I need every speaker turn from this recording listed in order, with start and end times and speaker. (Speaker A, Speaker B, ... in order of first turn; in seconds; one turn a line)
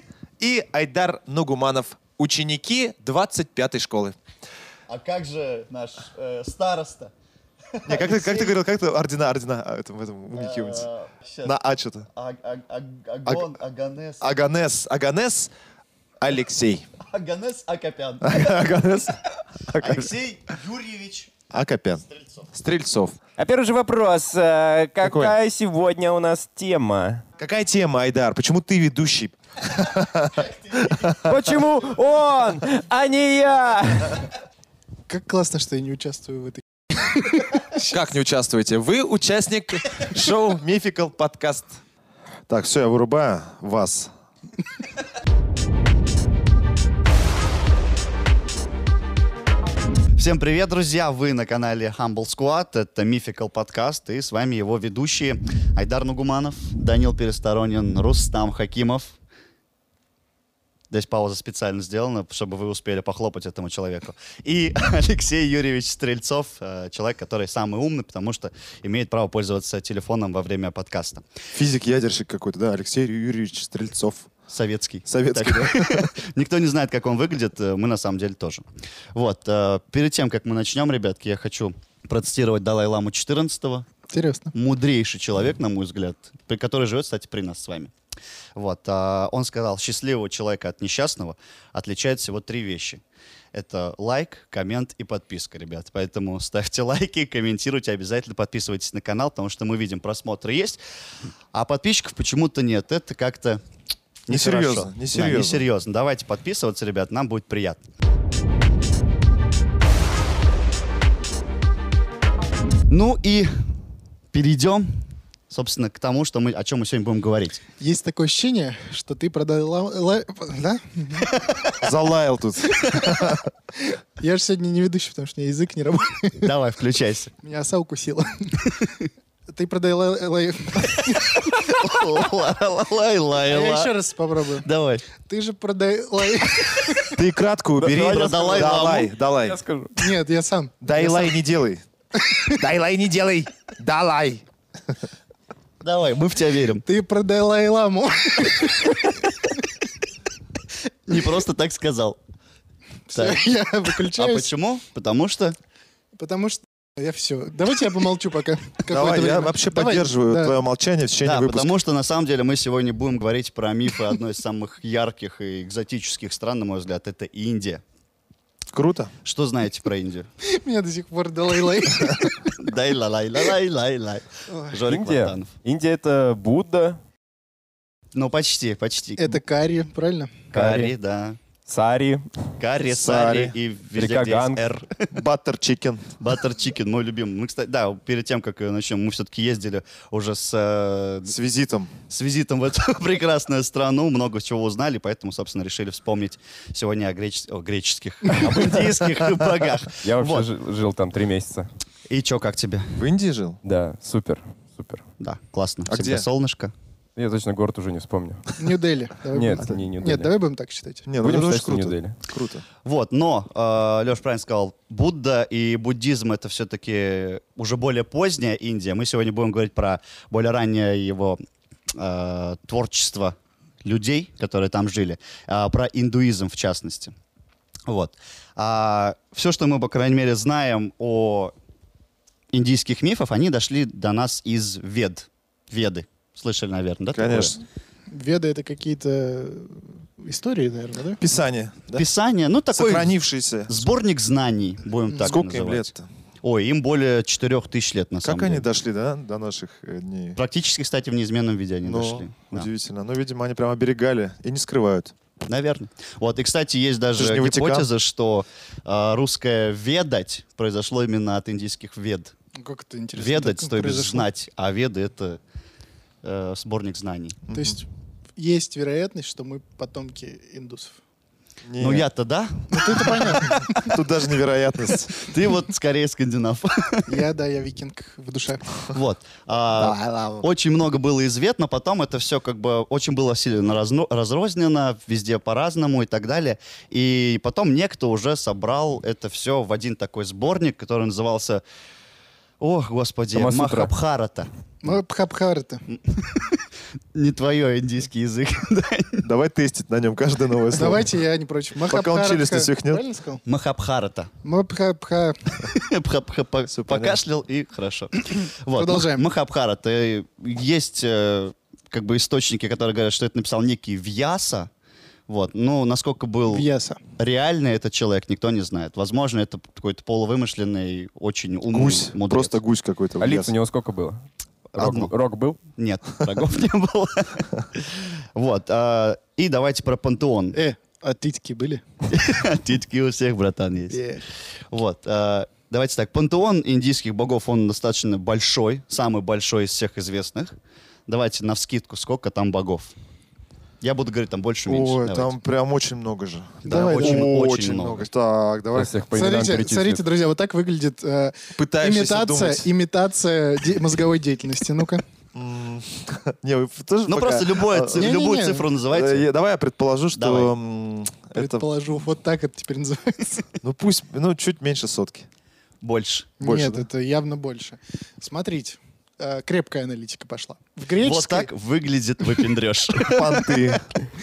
Speaker A: 0.4-4.2
Speaker B: 4.9-7.1
Speaker B: 7.7-8.6
Speaker A: 7.9-10.9
Speaker B: 10.3-11.6
Speaker A: 11.4-12.1
Speaker B: 12.1-14.2
Speaker A: 14.2-15.5
Speaker A: 16.2-16.9
Speaker B: 17.0-18.6
Speaker A: 18.2-20.1
Speaker B: 19.8-21.3
Speaker A: 21.5-23.2
Speaker B: 22.1-22.5
Speaker C: 23.4-27.2
Speaker A: 25.0-25.4
Speaker A: 27.4-31.4
Speaker C: 31.2-34.3
Speaker D: 35.1-37.9
Speaker A: 37.9-41.8
Speaker A: 42.5-44.1
Speaker B: 50.2-59.2
Speaker B: 60.9-71.3
Speaker A: 71.5-74.3
Speaker B: 74.5-83.9
Speaker A: 75.1-76.1
Speaker D: 84.1-84.5
Speaker B: 84.5-87.9
Speaker B: 88.6-93.0
Speaker B: 93.5-100.8
Speaker B: 101.5-103.6
Speaker B: 104.3-107.8
Speaker A: 104.3-105.6
Speaker B: 112.9-113.5
Speaker B: 114.3-117.6
Speaker D: 117.8-121.3
Speaker A: 121.8-123.4
Speaker D: 122.8-126.5
Speaker B: 126.4-127.3
Speaker D: 127.4-128.8
Speaker D: 129.5-131.6
Speaker B: 131.4-133.9
Speaker D: 133.5-137.2
Speaker B: 134.6-135.1
Speaker A: 137.1-139.6
Speaker B: 137.8-139.1
Speaker C: 139.4-140.1
Speaker D: 139.9-141.4
Speaker A: 140.8-141.8
Speaker A: 142.5-144.4
Speaker B: 145.8-146.8
Speaker D: 146.8-149.2
Speaker B: 151.1-152.2
Speaker D: 153.1-154.5
Speaker B: 153.2-153.5
Speaker B: 154.0-155.6
Speaker D: 156.2-160.6
Speaker A: 158.9-161.7
Speaker B: 161.2-167.8
Speaker A: 168.7-169.1
Speaker B: 169.2-170.3
Speaker D: 170.4-172.4
Speaker B: 172.4-175.5
Speaker D: 174.5-174.8
Speaker C: 174.9-177.0
Speaker B: 178.1-179.4
Speaker D: 179.2-180.3
Speaker B: 180.5-181.4
Speaker C: 180.5-180.9
Speaker C: 181.7-182.4
Speaker B: 182.6-185.1
Speaker A: 182.9-183.5
Speaker C: 184.0-184.6
Speaker A: 185.1-186.1
Speaker B: 186.2-191.3
Speaker A: 191.3-191.9
Speaker B: 192.1-200.5
Speaker C: 200.0-201.7
Speaker B: 202.1-202.9
Speaker A: 203.0-203.6
Speaker C: 203.6-205.0
Speaker B: 205.2-206.7
Speaker A: 205.9-206.3
Speaker C: 207.2-208.5
Speaker D: 208.6-211.1
Speaker C: 209.3-210.3
Speaker A: 211.1-212.7
Speaker C: 211.2-212.2
Speaker B: 212.8-227.2
Speaker B: 227.9-231.5
Speaker B: 232.5-237.6
Speaker A: 237.1-237.6
Speaker D: 238.1-241.2
Speaker A: 241.2-242.0
Speaker B: 241.9-243.2
Speaker A: 242.7-243.7
Speaker B: 243.7-245.9
Speaker A: 245.2-246.1
Speaker B: 246.4-248.7
Speaker A: 248.2-250.4
Speaker B: 250.4-252.7
Speaker A: 251.8-255.1
Speaker B: 255.4-262.3
Speaker A: 257.2-257.9
Speaker D: 262.5-264.3
Speaker B: 263.2-265.4
Speaker B: 266.2-267.4
Speaker A: 267.5-267.8
Speaker D: 267.5-271.0
Speaker A: 271.6-272.1
Speaker B: 271.8-273.5
Speaker D: 272.7-274.0
Speaker A: 273.5-275.2
Speaker B: 275.1-277.2
Speaker D: 277.1-278.8
Speaker B: 278.9-291.6
Speaker D: 279.8-280.4
Speaker B: 292.6-294.5
Speaker C: 293.3-293.9
Speaker D: 294.8-295.9
Speaker B: 295.9-299.2
Speaker A: 299.2-301.2
Speaker D: 300.7-303.4
Speaker A: 301.9-303.0
Speaker B: 303.4-304.3
Speaker D: 304.4-305.6
Speaker B: 305.6-314.7
Speaker A: 306.7-307.2
Speaker D: 308.8-309.2
Speaker B: 315.3-316.7
Speaker D: 316.5-317.0
Speaker B: 317.2-322.6
Speaker A: 321.7-323.5
Speaker C: 323.2-324.2
Speaker B: 324.8-325.1
Speaker C: 324.8-325.6
Speaker B: 325.8-330.6
Speaker D: 330.5-331.8
Speaker B: 332.1-334.0
Speaker D: 333.9-334.3
Speaker B: 334.7-340.6
Speaker B: 341.1-342.9
Speaker B: 343.8-345.3
Speaker A: 344.7-349.0
Speaker D: 346.6-347.3
Speaker B: 346.6-348.1
Speaker C: 348.8-350.0
Speaker D: 349.1-355.0
Speaker A: 351.6-352.7
Speaker A: 355.4-358.1
Speaker B: 357.1-359.3
Speaker D: 357.9-358.7
Speaker A: 358.9-361.7
Speaker B: 360.2-360.5
Speaker D: 361.4-363.4
Speaker A: 363.6-365.3
Speaker B: 365.8-366.3
Speaker D: 366.4-371.5
Speaker A: 366.4-366.9
Speaker B: 371.0-373.6
Speaker A: 373.0-373.9